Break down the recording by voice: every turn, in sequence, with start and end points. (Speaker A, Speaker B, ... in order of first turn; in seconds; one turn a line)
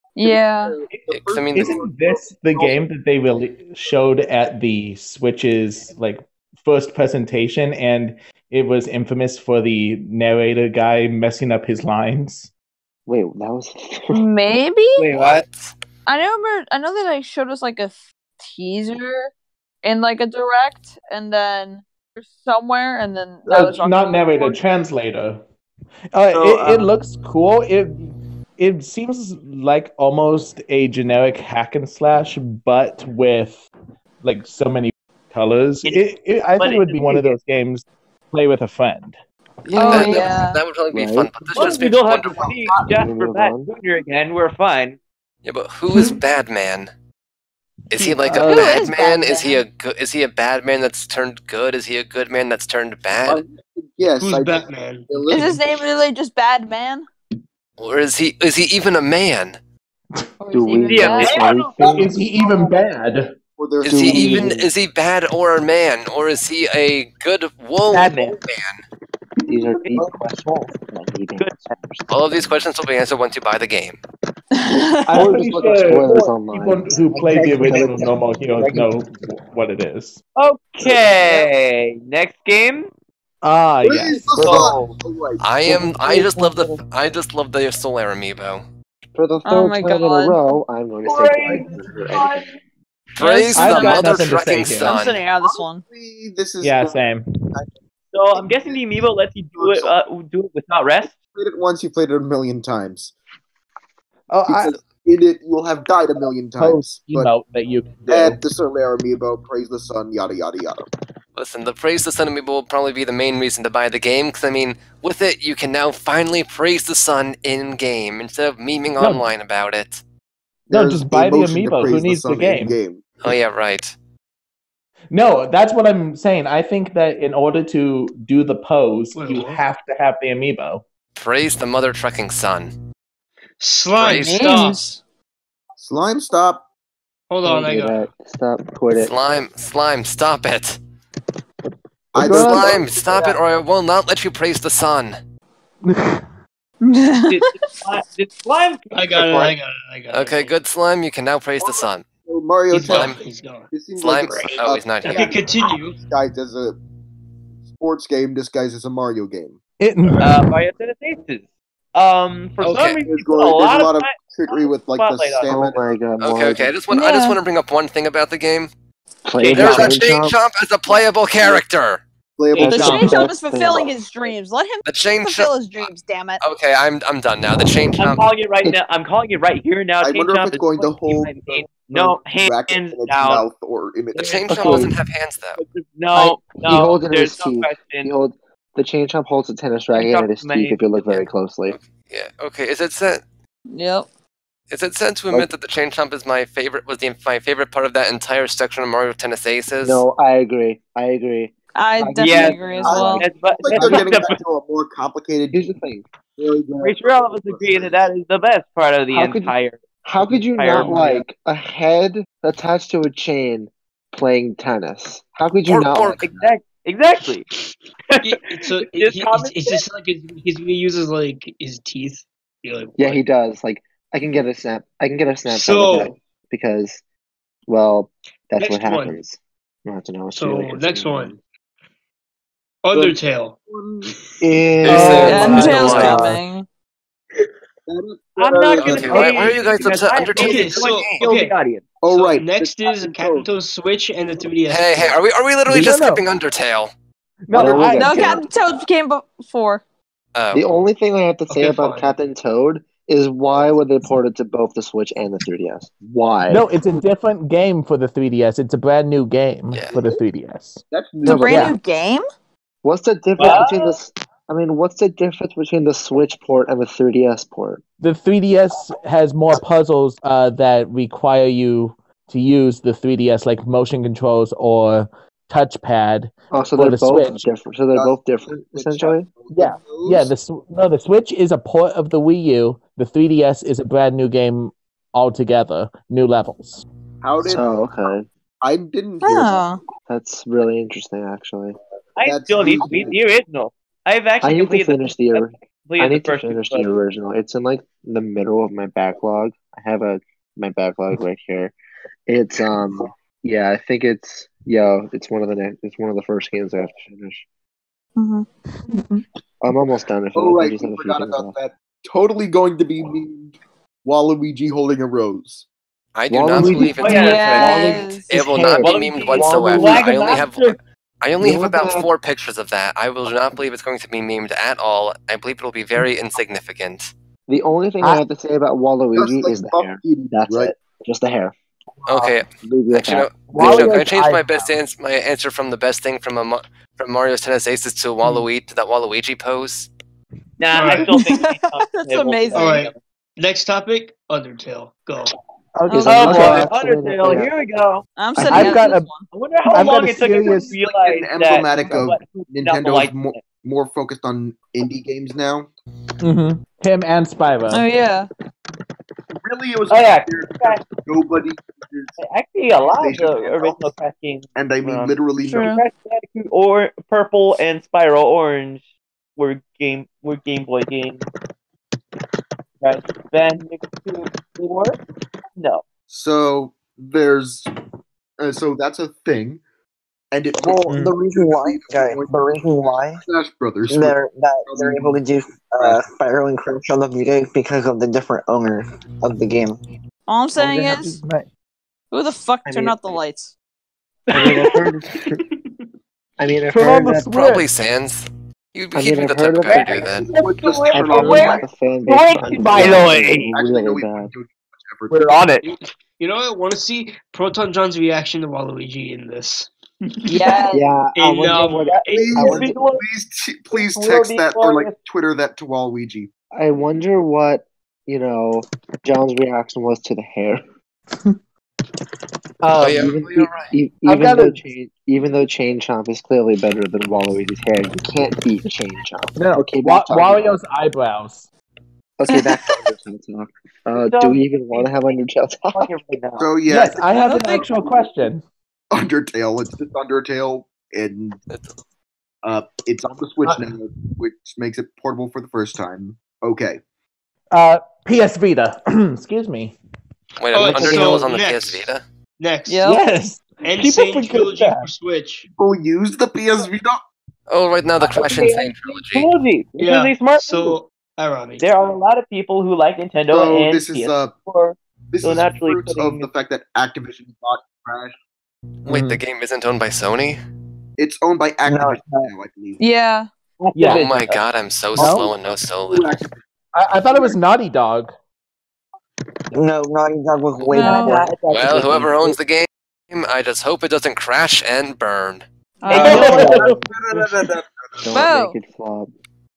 Speaker A: 0.2-0.8
Speaker B: 0.2-2.8
Speaker C: 1.1-1.8
Speaker D: 1.5-12.5
Speaker E: 13.1-14.2
Speaker A: 14.1-15.1
Speaker F: 15.0-15.4
Speaker C: 15.1-15.7
Speaker A: 16.1-19.3
Speaker A: 19.8-24.6
Speaker D: 23.5-25.4
Speaker D: 26.1-33.7
Speaker F: 26.3-26.9
Speaker D: 34.2-39.2
Speaker F: 36.6-37.4
Speaker E: 39.7-40.3
Speaker C: 39.7-42.7
Speaker A: 39.8-40.6
Speaker E: 40.9-41.4
Speaker F: 41.5-45.0
Speaker E: 42.9-43.7
Speaker C: 45.5-46.9
Speaker D: 45.9-46.2
Speaker C: 47.9-53.4
Speaker D: 48.2-48.7
Speaker A: 48.4-49.6
Speaker B: 53.1-55.8
Speaker G: 54.2-55.1
Speaker A: 55.3-57.1
Speaker C: 57.8-59.6
Speaker A: 60.4-61.5
Speaker E: 60.5-62.2
Speaker F: 60.9-62.2
Speaker D: 61.8-63.4
Speaker B: 63.6-64.7
Speaker C: 63.8-68.8
Speaker E: 63.9-64.7
Speaker F: 67.9-68.4
Speaker E: 69.5-72.7
Speaker H: 70.0-70.7
Speaker C: 72.1-74.0
Speaker A: 74.5-75.3
Speaker D: 75.0-80.2
Speaker E: 75.1-78.2
Speaker H: 77.1-78.9
Speaker F: 80.4-82.9
Speaker D: 83.4-84.7
Speaker B: 83.8-85.7
Speaker E: 84.4-84.8
Speaker H: 84.4-84.7
Speaker C: 85.4-88.6
Speaker E: 89.2-92.5
Speaker A: 89.5-90.4
Speaker F: 91.0-92.5
Speaker C: 93.2-95.2
Speaker F: 93.3-93.8
Speaker A: 93.4-95.8
Speaker D: 93.5-95.0
Speaker B: 95.3-97.0
Speaker D: 96.6-97.2
Speaker F: 98.1-101.1
Speaker B: 98.3-98.8
Speaker B: 99.5-100.0
Speaker B: 101.3-103.1
Speaker D: 104.3-104.8
Speaker B: 104.5-107.3
Speaker D: 106.6-108.4
Speaker B: 108.1-110.9
Speaker C: 111.4-120.0
Speaker D: 119.0-119.2
Speaker D: 120.7-122.8
Speaker B: 120.7-123.1
Speaker C: 123.2-123.9
Speaker D: 125.1-130.8
Speaker G: 129.2-129.6
Speaker C: 131.2-132.7
Speaker G: 133.6-135.0
Speaker C: 134.0-134.7
Speaker A: 134.2-134.9
Speaker B: 135.8-136.7
Speaker G: 137.3-138.1
Speaker E: 137.4-139.1
Speaker C: 138.9-140.8
Speaker B: 142.1-143.0
Speaker E: 142.2-142.7
Speaker C: 142.3-145.2
Speaker D: 145.8-146.2
Speaker A: 146.8-147.7
Speaker F: 147.3-149.6
Speaker G: 148.9-150.6
Speaker C: 150.1-152.1
Speaker B: 151.6-153.2
Speaker G: 152.7-153.7
Speaker C: 152.9-153.2
Speaker B: 153.7-156.8
Speaker C: 153.9-155.4
Speaker G: 155.0-156.0
Speaker B: 157.7-159.6
Speaker D: 159.8-160.4
Speaker G: 160.0-160.4
Speaker F: 160.2-165.7
Speaker C: 162.6-163.0
Speaker B: 163.0-166.0
Speaker E: 165.5-166.8
Speaker C: 166.2-168.7
Speaker A: 166.9-167.4
Speaker E: 169.3-170.4
Speaker F: 169.4-170.0
Speaker C: 169.5-172.0
Speaker D: 169.6-169.8
Speaker B: 172.4-173.2
Speaker F: 172.5-173.2
Speaker E: 172.6-174.1
Speaker A: 172.7-176.4
Speaker C: 174.8-175.9
Speaker C: 176.4-178.2
Speaker F: 178.0-183.4
Speaker B: 180.0-184.8
Speaker F: 184.2-184.8
Speaker C: 184.2-185.6
Speaker E: 184.5-184.9
Speaker F: 185.6-188.1
Speaker E: 186.1-191.8
Speaker F: 189.9-191.0
Speaker C: 191.1-193.2
Speaker A: 193.7-194.1
Speaker C: 194.7-200.0
Speaker E: 199.8-204.2
Speaker A: 201.8-203.3
Speaker F: 202.2-204.4
Speaker B: 202.8-205.7
Speaker E: 205.5-206.0
Speaker B: 206.4-208.1
Speaker F: 206.8-211.2
Speaker E: 209.1-209.5
Speaker E: 210.1-216.5
Speaker G: 210.7-211.1
Speaker C: 215.7-216.2
Speaker F: 216.2-217.5
Speaker F: 218.1-219.8
Speaker G: 218.2-223.2
Speaker E: 223.0-227.0
Speaker G: 225.5-226.1
Speaker E: 227.7-231.3
Speaker G: 228.6-229.2
Speaker G: 230.4-231.4
Speaker G: 232.8-233.6
Speaker B: 232.9-234.2
Speaker E: 234.4-236.0
Speaker C: 234.8-236.2
Speaker D: 234.9-236.4
Speaker A: 235.2-236.7
Speaker B: 237.9-239.6
Speaker F: 238.4-241.9
Speaker C: 238.8-241.3
Speaker G: 240.3-245.2
Speaker B: 242.0-243.5
Speaker C: 244.7-246.9
Speaker D: 245.7-246.2
Speaker D: 247.5-248.5
Speaker E: 247.5-248.5
Speaker A: 247.6-249.8
Speaker C: 250.3-250.7
Speaker E: 250.5-256.7
Speaker G: 251.5-252.2
Speaker D: 256.5-260.8
Speaker C: 259.7-260.0
Speaker B: 259.9-260.2
Speaker B: 260.9-261.8
Speaker A: 261.2-262.3
Speaker E: 261.2-261.7
Speaker D: 261.5-261.8
Speaker E: 262.8-267.8
Speaker F: 263.4-264.0
Speaker D: 268.0-277.4
Speaker E: 276.5-279.3
Speaker B: 277.9-280.3
Speaker D: 279.5-286.9
Speaker B: 287.2-287.7
Speaker E: 287.4-288.3
Speaker B: 288.6-289.7
Speaker A: 289.2-289.8
Speaker E: 290.1-291.8
Speaker F: 292.2-296.9
Speaker B: 292.2-293.2
Speaker E: 294.4-301.7
Speaker E: 302.3-307.4
Speaker A: 308.2-309.2
Speaker E: 309.6-311.5
Speaker B: 310.4-315.7
Speaker C: 316.1-317.4
Speaker E: 316.3-320.3
Speaker F: 316.7-318.0
Speaker A: 317.1-318.3
Speaker C: 318.3-327.1
Speaker F: 318.8-320.8
Speaker E: 321.4-322.1
Speaker E: 327.5-333.9
Speaker B: 329.1-330.7
Speaker C: 332.1-339.9
Speaker D: 333.5-334.8
Speaker F: 340.6-343.0
Speaker G: 340.7-341.2
Speaker A: 341.1-342.7
Speaker G: 342.5-345.3
Speaker D: 345.8-346.7
Speaker A: 345.9-346.2
Speaker E: 345.9-347.5
Speaker F: 346.1-348.8
Speaker A: 348.2-349.3
Speaker D: 348.4-349.1
Speaker F: 349.3-353.4
Speaker D: 349.7-350.7
Speaker B: 350.7-355.7
Speaker D: 356.2-357.9
Speaker A: 357.7-358.3
Speaker B: 359.4-362.2
Speaker F: 359.9-360.9
Speaker F: 362.2-368.8
Speaker B: 362.8-363.9
Speaker B: 364.6-365.7
Speaker A: 365.4-365.8
Speaker F: 369.4-371.3
Speaker F: 372.8-375.0
Speaker F: 375.6-375.8
Speaker B: 376.1-377.7
Speaker B: 378.4-379.6
Speaker B: 380.3-386.0
Speaker H: 380.6-383.2
Speaker D: 380.9-381.1
Speaker H: 383.9-389.8
Speaker A: 390.3-391.2
Speaker D: 390.6-391.5
Speaker A: 392.1-393.5
Speaker E: 392.6-393.0
Speaker F: 394.3-394.7
Speaker E: 394.3-395.4
Speaker E: 396.4-397.3
Speaker D: 396.7-397.6
Speaker C: 397.2-400.3
Speaker E: 398.9-400.2
Speaker F: 399.7-403.4
Speaker B: 400.1-401.6
Speaker E: 400.9-404.3
Speaker D: 402.1-403.5
Speaker B: 402.8-405.2
Speaker D: 405.1-405.7
Speaker G: 405.6-412.2
Speaker A: 410.3-410.9
Speaker E: 410.7-412.8
Speaker F: 411.9-413.1
Speaker B: 412.1-416.3
Speaker F: 413.7-415.0
Speaker E: 416.5-420.6
Speaker D: 422.6-423.1
Speaker C: 422.8-423.7
Speaker E: 422.8-430.5
Speaker D: 424.1-424.6
Speaker D: 429.4-431.5
Speaker E: 432.2-435.9
Speaker F: 434.0-434.9
Speaker F: 435.7-436.5
Speaker B: 436.4-437.0
Speaker D: 436.7-438.4
Speaker A: 437.1-437.7
Speaker B: 438.9-441.4
Speaker C: 441.5-441.8
Speaker B: 442.4-446.8
Speaker G: 443.4-443.7
Speaker D: 447.5-449.8
Speaker C: 450.4-452.0
Speaker G: 450.5-451.9
Speaker D: 450.6-451.2
Speaker G: 452.4-452.9
Speaker A: 452.7-453.0
Speaker D: 452.8-454.9
Speaker G: 453.6-455.5
Speaker B: 455.6-457.0
Speaker C: 457.5-459.3
Speaker F: 458.0-460.8
Speaker G: 459.8-461.7
Speaker F: 461.6-466.3
Speaker B: 463.3-464.3
Speaker B: 465.1-468.2
Speaker D: 468.9-469.2
Speaker C: 468.9-470.4
Speaker B: 471.0-472.8
Speaker H: 471.6-472.3
Speaker A: 472.8-473.3
Speaker F: 473.6-474.4
Speaker D: 473.8-474.1
Speaker C: 473.9-476.2
Speaker D: 475.0-475.3
Speaker B: 475.0-476.4
Speaker D: 476.7-478.1
Speaker B: 477.1-477.4
Speaker H: 479.5-481.4
Speaker C: 480.6-480.9
Speaker A: 480.7-481.3
Speaker F: 480.8-482.4
Speaker C: 481.4-485.4
Speaker A: 485.8-486.7
Speaker F: 485.9-486.8
Speaker B: 485.9-488.0
Speaker D: 485.9-486.7
Speaker G: 487.1-487.4
Speaker E: 488.0-489.1
Speaker A: 488.1-488.6